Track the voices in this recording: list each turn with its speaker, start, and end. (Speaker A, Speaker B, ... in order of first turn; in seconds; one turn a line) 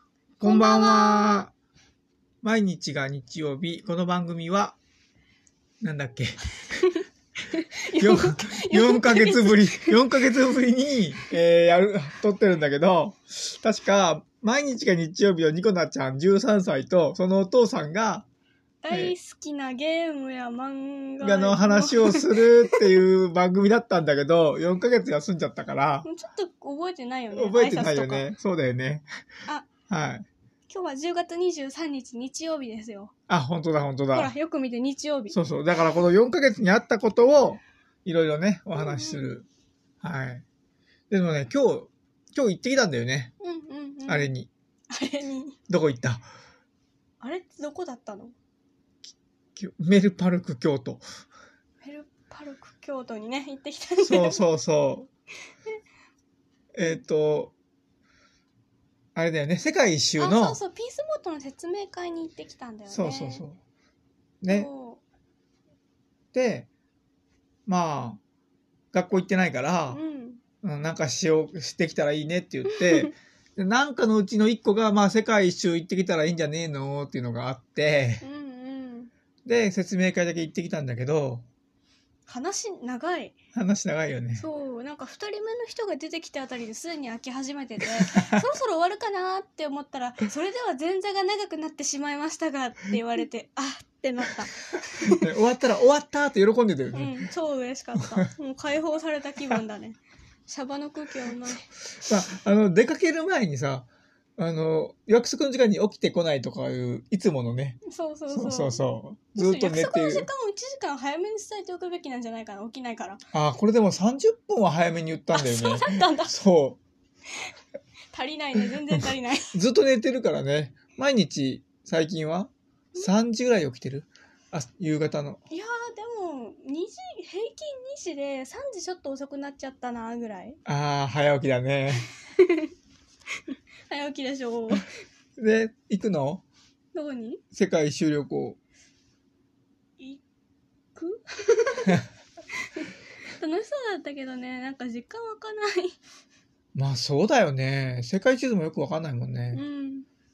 Speaker A: 0.4-1.5
Speaker B: 0.4-1.4
Speaker A: 2.4-4.8
Speaker A: 5.8-6.4
Speaker B: 6.8-10.0
Speaker A: 8.0-18.3
Speaker B: 18.8-22.8
Speaker A: 18.9-19.1
Speaker A: 21.2-26.1
Speaker B: 26.0-28.3
Speaker A: 27.3-29.1
Speaker A: 29.9-30.2
Speaker B: 30.7-33.1
Speaker A: 33.3-34.3
Speaker B: 34.1-35.4
Speaker A: 35.3-39.5
Speaker B: 38.7-39.3
Speaker A: 40.0-40.4
Speaker A: 41.1-43.3
Speaker B: 43.4-44.3
Speaker A: 44.1-44.5
Speaker B: 44.9-45.6
Speaker A: 45.7-46.3
Speaker B: 47.2-48.3
Speaker A: 49.5-51.0
Speaker B: 51.8-54.4
Speaker A: 54.0-55.1
Speaker A: 56.7-57.5
Speaker A: 59.1-60.6
Speaker B: 60.2-63.4
Speaker A: 62.9-63.6
Speaker A: 64.4-64.7
Speaker B: 64.5-65.0
Speaker A: 66.3-66.7
Speaker A: 67.7-68.2
Speaker A: 68.9-70.0
Speaker B: 69.9-70.4
Speaker A: 70.6-78.2
Speaker B: 72.7-73.1
Speaker B: 78.2-79.1
Speaker A: 79.4-81.5
Speaker B: 82.3-83.3
Speaker A: 83.5-84.5
Speaker B: 84.3-95.2
Speaker A: 88.0-88.4
Speaker A: 95.1-97.3
Speaker B: 96.9-101.7
Speaker A: 102.0-110.3
Speaker B: 107.8-108.8
Speaker B: 109.3-113.2
Speaker A: 113.3-116.8
Speaker B: 115.3-116.3
Speaker B: 118.1-119.5
Speaker A: 119.5-125.4
Speaker B: 125.5-130.6
Speaker A: 130.7-132.1
Speaker B: 132.4-132.7
Speaker B: 133.9-134.9
Speaker A: 135.4-136.4
Speaker B: 136.9-137.4
Speaker A: 137.5-138.6
Speaker B: 140.9-142.0
Speaker B: 142.8-145.9
Speaker A: 146.7-149.6
Speaker B: 149.5-150.1